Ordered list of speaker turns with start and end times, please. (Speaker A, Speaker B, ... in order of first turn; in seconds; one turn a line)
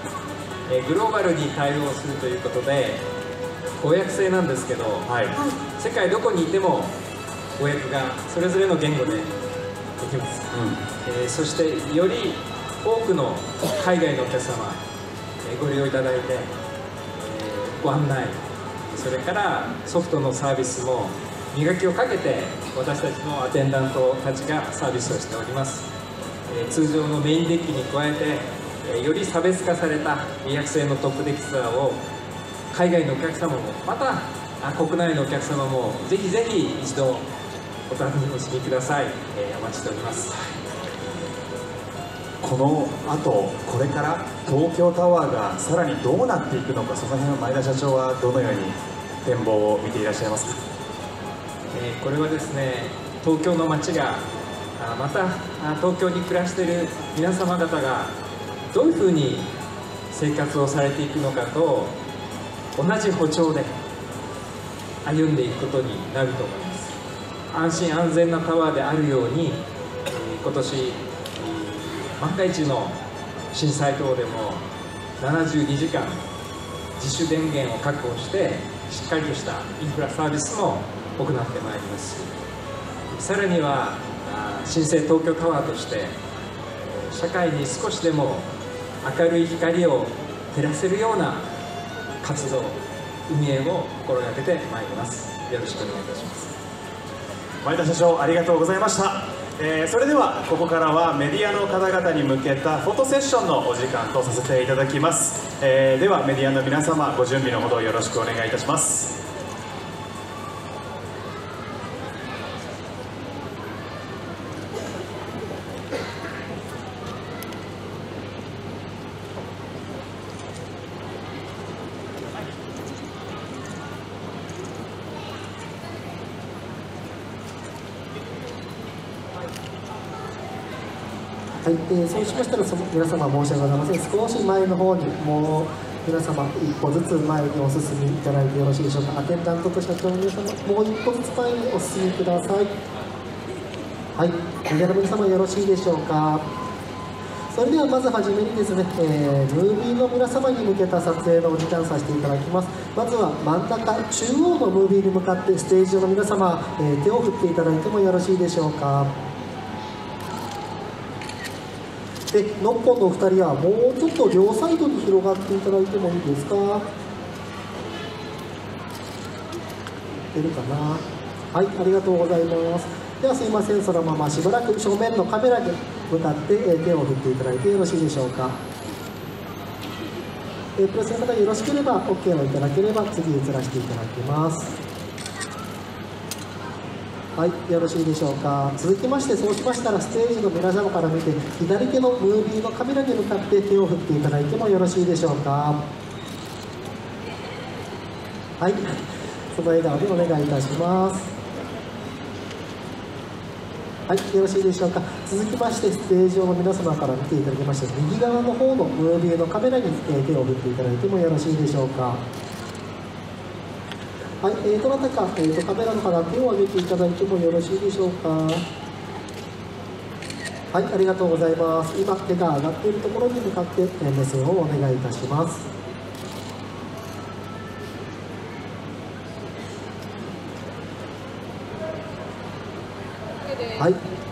Speaker A: 0.7-3.0
Speaker A: 3.8-5.1
Speaker B: 5.1-5.4
Speaker A: 5.7-6.9
Speaker A: 7.6-9.3
Speaker A: 10.0-10.5
Speaker B: 10.5-10.8
Speaker A: 11.0-14.8
Speaker A: 15.4-16.5
Speaker A: 17.2-25.9
Speaker A: 26.5-32.0
Speaker A: 32.7-37.2
Speaker A: 37.9-40.6
Speaker B: 42.4-50.6
Speaker A: 51.7-54.2
Speaker A: 54.8-58.1
Speaker A: 58.7-59.5
Speaker A: 60.1-61.9
Speaker A: 62.8-63.7
Speaker A: 65.0-66.9
Speaker A: 67.5-73.0
Speaker A: 73.5-74.6
Speaker A: 75.2-76.2
Speaker A: 77.0-82.3
Speaker A: 83.1-86.2
Speaker A: 86.8-88.5
Speaker A: 89.0-91.4
Speaker A: 92.2-96.5
Speaker B: 97.6-109.2
Speaker C: 131.6-142.7
Speaker C: 144.2-146.4
Speaker C: 147.5-159.1
Speaker C: 162.3-166.8
Speaker C: 170.3-178.6
Speaker C: 180.8-184.7
Speaker C: 187.4-195.8
Speaker C: 198.6-199.0
Speaker C: 199.5-201.3
Speaker C: 204.1-212.2
Speaker C: 214.4-218.6
Speaker C: 220.7-225.6